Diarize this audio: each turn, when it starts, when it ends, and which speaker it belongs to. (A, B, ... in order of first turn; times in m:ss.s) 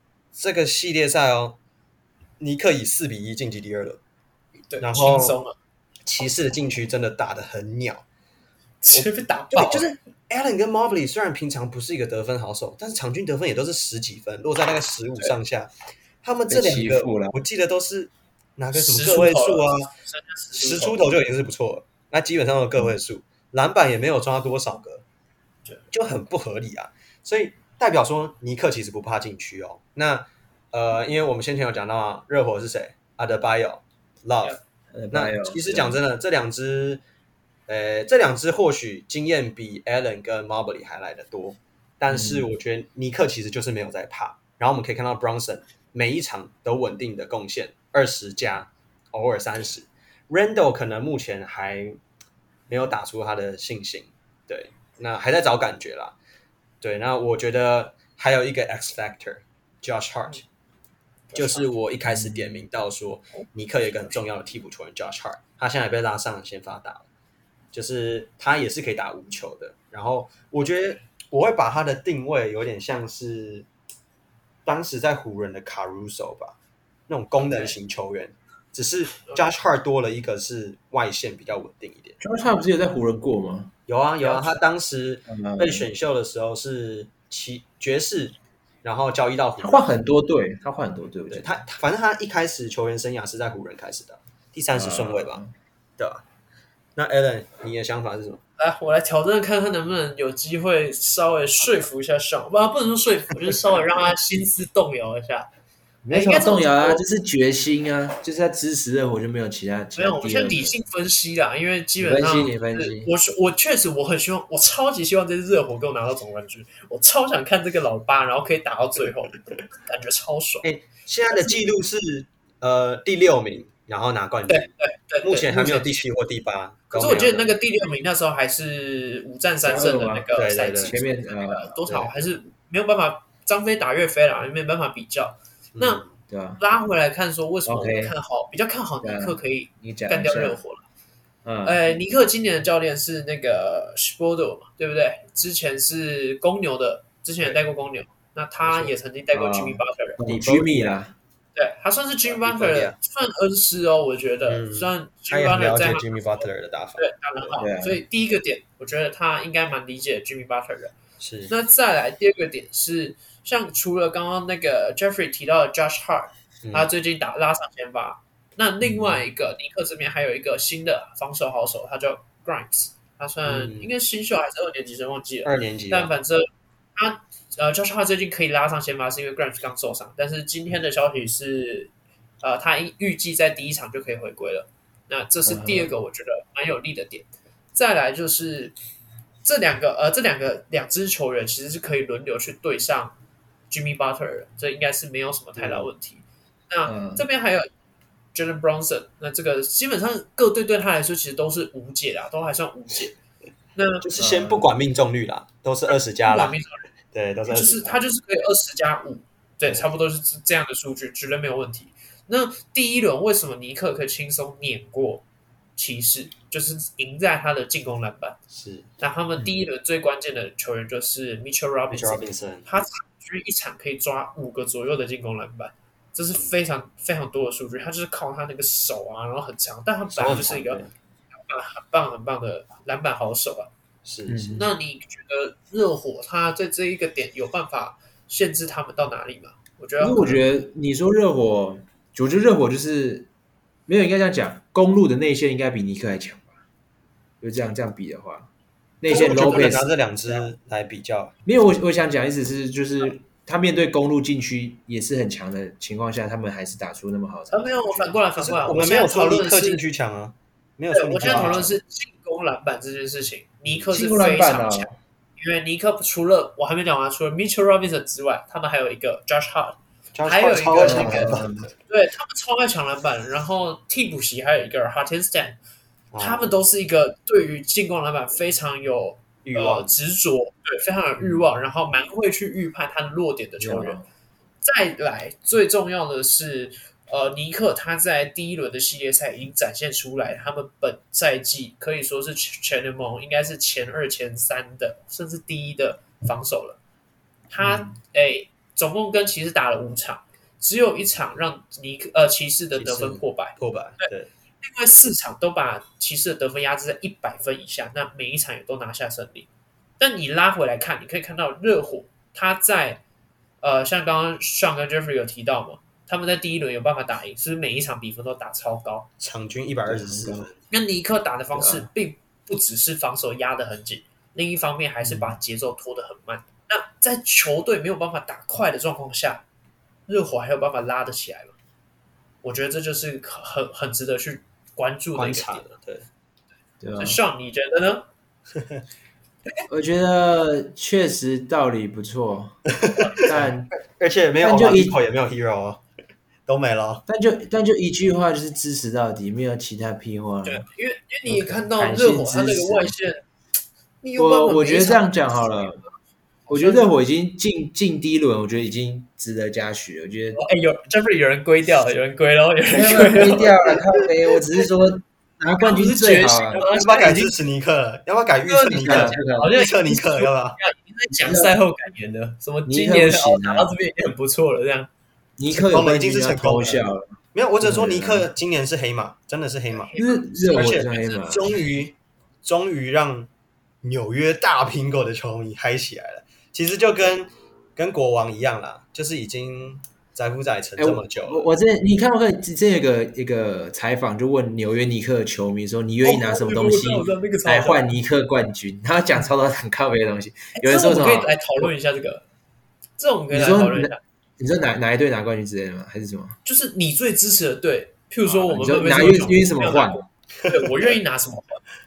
0:00.3-0:01.6 A
0:02.4-0:04.0 A
0:04.7-0:05.6 B
0:04.8-0:05.4 A
0:06.1-0:08.0 A
0:08.8-0:09.9 B
0:08.9-0:15.7 A
0:16.2-0:19.9 A
0:16.5-0:17.4 C
0:18.7-0:21.0 B
0:20.6-0:25.0 A
0:25.9-0:34.6 A
0:34.9-0:36.0 C
0:35.1-0:37.0 A
0:37.7-0:52.0 A
0:42.1-0:42.4 C
0:52.7-0:56.2 A
0:56.8-1:00.4 A
1:01.3-1:01.7 B
1:01.4-1:07.1 A
1:02.1-1:02.6 C
1:07.7-1:13.7 A
1:14.6-1:16.6 A
1:17.1-1:22.2 A
1:17.5-1:17.8 B
1:22.2-1:23.7 C
1:23.9-1:29.9 A
1:24.2-1:24.6 B
1:25.3-1:25.9 C
1:29.6-1:31.6 C
1:31.3-1:35.4 A
1:34.7-1:35.5 C
1:36.0-1:36.2 A
1:37.0-1:38.4 A
1:38.6-1:45.5 B
1:46.0-1:50.8 C
1:46.1-1:47.0 B
1:50.0-2:00.7 B
1:52.0-1:53.1 C
2:00.6-2:04.7 A
2:01.3-2:01.6 B
2:04.5-2:06.0 B
2:05.2-2:07.5 A
2:06.9-2:16.0 B
2:09.6-2:10.3 C
2:10.4-2:10.9 A
2:10.8-2:11.8 C
2:15.7-2:16.1 A
2:16.3-2:16.6 C
2:16.6-2:20.8 B
2:17.7-2:18.2 C
2:19.0-2:20.6 C
2:21.4-2:21.8 C
2:21.6-2:30.3 B
2:29.3-2:31.1 C
2:30.3-2:30.9 A
2:31.6-2:36.4 B
2:32.2-2:33.0 A
2:34.5-2:37.5 A
2:37.0-2:41.0 B
2:37.6-2:38.0 C
2:41.2-2:41.5 A
2:41.5-3:08.8 B
2:46.6-2:46.9 A
2:48.9-2:49.2 C
2:53.4-2:53.9 A
2:55.4-2:56.1 A
3:05.5-3:05.9 C
3:09.4-3:13.2 B
3:13.7-3:17.7 B
3:16.9-3:17.2 C
3:18.3-3:23.2 B
3:23.8-3:24.0 B
3:24.0-3:26.6 A
3:24.2-3:24.7 C
3:25.9-3:26.8 B
3:27.1-3:28.0 A
3:27.5-3:35.2 B
3:35.8-3:38.4 B
3:38.5-3:38.9 A
3:39.0-3:50.8 B
3:41.9-3:42.7 A
3:50.1-3:50.9 A
3:51.5-3:53.7 B
3:54.0-3:54.5 A
3:54.3-3:54.7 C
3:54.5-4:00.4 B
4:00.0-4:03.3 C
4:03.9-4:06.5 C
4:07.4-4:08.5 C
4:09.0-4:10.5 C
4:09.1-4:09.8 B
4:09.1-4:11.3 A
4:11.5-4:18.1 C
4:17.5-4:19.8 B
4:18.4-4:21.7 A
4:20.9-4:35.6 B
4:21.3-4:21.7 C
4:23.9-4:25.0 C
4:30.2-4:31.7 A
4:30.8-4:31.7 C
4:36.1-4:36.5 A
4:36.2-4:44.0 B
4:39.4-4:39.9 A
4:43.6-4:44.1 C
4:44.6-4:56.8 B
4:57.5-5:04.1 B
4:57.6-4:57.9 C
5:02.8-5:04.3 A
5:04.6-5:13.0 B
5:13.6-5:19.1 B
5:19.2-5:20.6 A
5:19.8-5:20.5 C
5:20.7-5:29.4 B
5:21.6-5:21.9 C
5:25.0-5:25.4 C
5:30.1-5:31.6 B
5:32.4-5:35.7 B
5:35.2-5:36.1 A
5:36.8-5:37.2 C
5:37.0-5:38.1 B
5:39.7-5:43.7 C
5:42.7-5:45.8 A
5:44.4-5:45.0 C
5:46.5-5:47.0 A
5:47.1-5:50.7 C
5:50.4-5:53.2 B
5:51.3-5:53.0 C
5:54.0-5:55.8 B
5:54.2-5:55.8 C
5:56.5-5:56.9 B
5:56.5-6:00.4 C
6:00.4-6:03.8 B
6:02.7-6:07.3 C
6:05.6-6:07.2 B
6:06.6-6:10.6 A
6:08.5-6:14.9 B
6:08.8-6:09.5 C
6:11.1-6:11.5 C
6:12.7-6:13.7 C
6:15.4-6:17.1 C
6:15.5-6:23.3 A
6:17.6-6:18.3 C
6:19.7-6:21.6 B
6:20.0-6:21.5 C
6:23.8-6:31.5 A
6:30.8-6:41.6 C
6:36.0-6:37.9 B
6:40.6-6:42.2 B
6:43.0-6:44.0 B
6:43.3-6:46.4 C
6:46.4-6:51.6 B
6:48.4-6:50.0 C